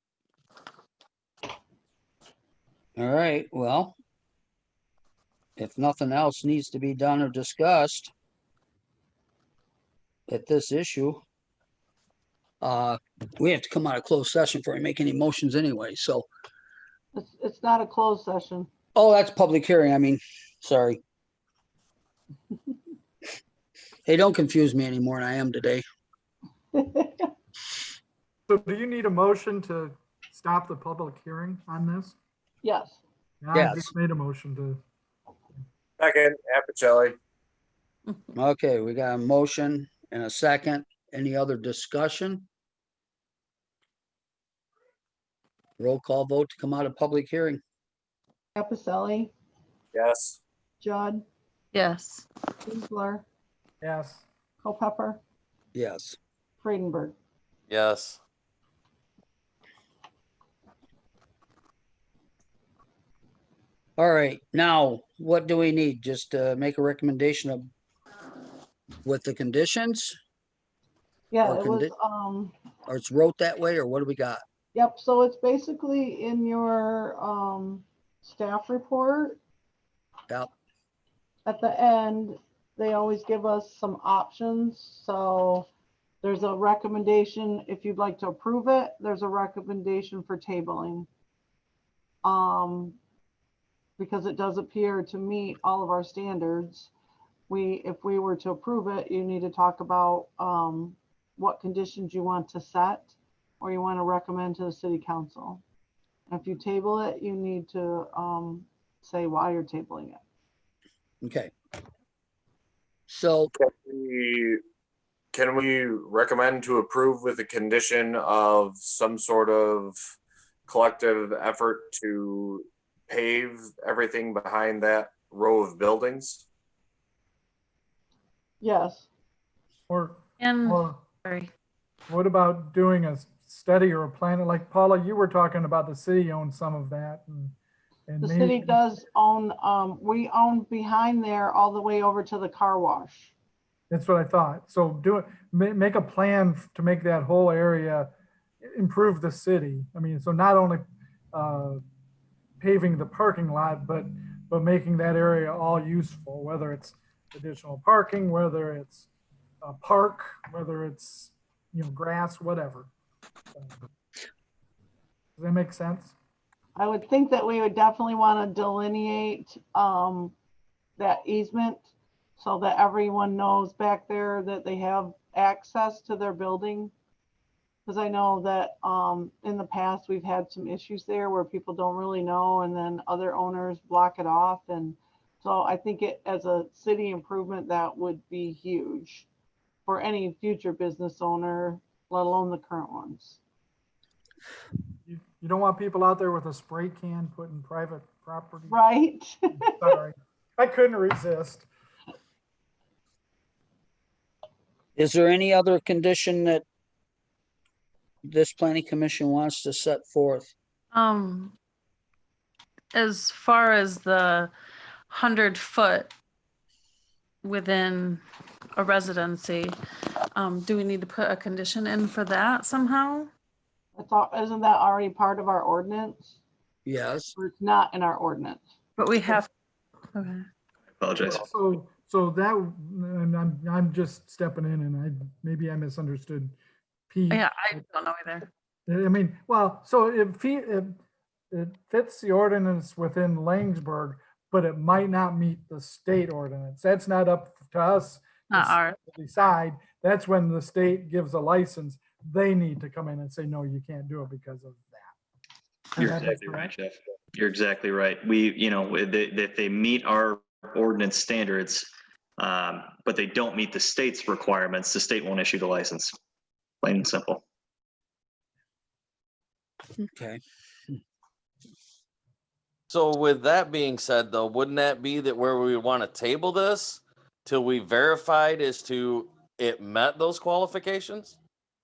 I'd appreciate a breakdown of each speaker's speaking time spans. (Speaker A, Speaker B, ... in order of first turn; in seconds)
Speaker A: 3.0-4.0, 5.6-8.1, 10.3-11.2, 12.6-16.3, 18.9-21.0, 24.1-25.8, 33.5-33.9, 38.4-42.5, 45.8-47.6, 55.8-56.2, 64.0-67.7, 69.0-70.2, 71.5-71.9, 72.9-74.4, 111.2-111.5, 113.1-113.5, 205.0-206.7, 208.3-210.5, 226.8-227.3, 270.0-270.4
Speaker B: 17.1-18.7, 26.7-27.3, 32.6-33.0, 48.6-49.3, 50.8-51.2, 52.6-53.2, 54.6-55.2, 56.6-57.1, 71.3-72.5, 74.7-79.4, 81.5-85.7, 86.2-91.1, 92.2-93.0, 94.0-96.9, 97.5-105.6, 106.3-110.2, 128.6-129.1, 138.2-143.3, 166.8-170.3, 171.0-171.9, 172.4-176.9, 177.9-189.3, 189.9-193.4, 198.7-199.9, 224.0-226.4, 227.4-228.6
Speaker C: 28.5-32.2, 33.4-34.8, 53.8-54.2, 129.9-131.0, 132.1-137.6, 138.1-138.8, 143.9-148.1, 148.6-151.8, 152.6-159.1, 159.6-162.9, 163.5-163.8, 165.4-166.2, 195.1-198.8, 199.6-201.7, 231.2-236.6, 237.1-237.8, 238.9-241.0, 241.5-255.2, 256.0-256.7
Speaker D: 36.0-37.2, 49.9-50.4, 113.5-114.6, 115.3-120.0, 120.7-126.5
Speaker E: 51.7-52.3, 130.4-131.5, 210.9-211.6, 212.9-214.5, 215.1-216.1, 217.4-218.2, 218.8-219.8, 220.3-223.3, 229.0-229.5, 230.2-230.4, 237.3-238.5, 248.5-249.0
Speaker F: 57.7-58.2, 272.9-281.4
Speaker G: 231.0-231.4, 256.0-266.2, 266.8-267.4